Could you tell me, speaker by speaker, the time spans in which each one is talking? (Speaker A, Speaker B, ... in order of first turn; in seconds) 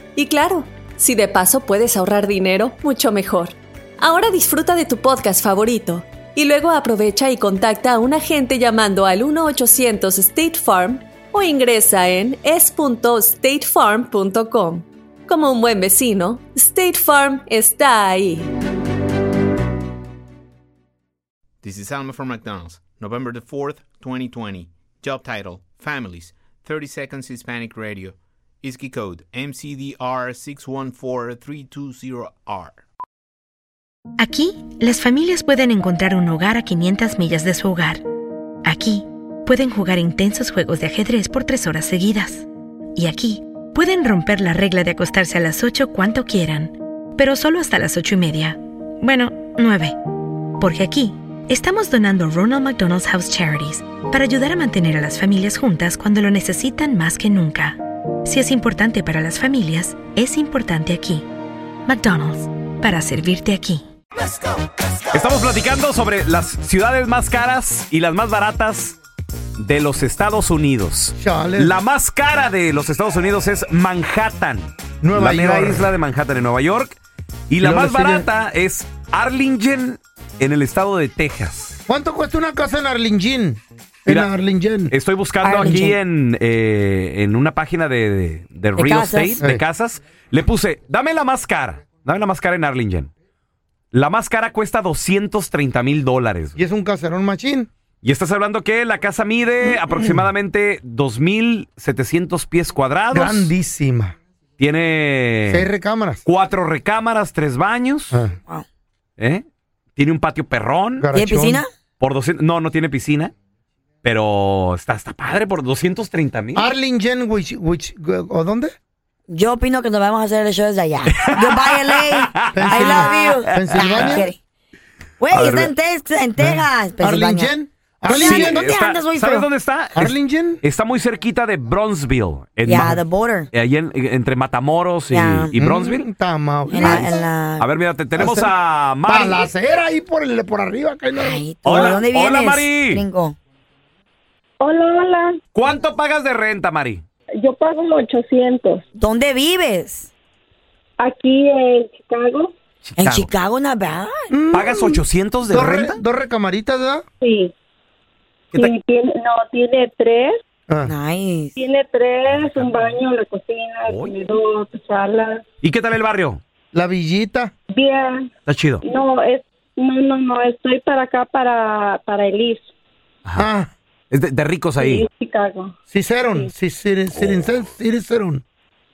Speaker A: 0.1-18.5
Speaker B: 21.6-32.8
Speaker C: 34.2-38.0, 38.6-50.0, 50.6-61.3, 61.9-63.8
Speaker D: 65.1-69.0, 69.6-77.0, 77.5-81.8, 84.9-93.1, 93.9-96.5, 98.0-103.5, 104.6-105.7, 106.2-108.2, 109.2-109.4, 110.0-111.1, 112.0-113.3, 114.0-116.7, 121.1-124.2, 125.3-125.7, 128.1-133.0, 133.5-136.1, 137.6-139.5, 141.6-143.0, 145.5-147.0, 152.8-153.3, 154.5-156.0, 162.2-162.9, 163.8-164.2, 165.6-166.4, 168.5-168.8, 174.1-175.1
Speaker E: 71.2-71.8, 75.0-75.9, 77.6-78.3, 81.9-84.9, 96.5-97.7, 103.1-104.2, 105.5-106.2, 111.0-111.6, 116.5-118.7, 122.5-124.3, 126.4-128.7, 129.9-130.6, 132.7-133.0, 135.5-137.3, 138.2-142.0, 154.3-157.0, 166.7-167.5, 173.4-173.7, 175.9-178.4
Speaker F: 85.4-86.0, 88.8-89.4, 111.1-111.7, 119.3-124.4, 125.2-127.5, 128.1-129.5, 132.7-133.5, 135.1-135.5, 136.7-137.7, 141.1-143.3, 149.0-150.1, 153.0-154.3, 160.9-161.5
Speaker G: 144.6-145.4, 147.4-148.8, 151.0-152.5, 157.2-157.5, 158.5-160.4, 161.6-165.4, 167.7-168.3, 168.8-172.7, 174.8-175.7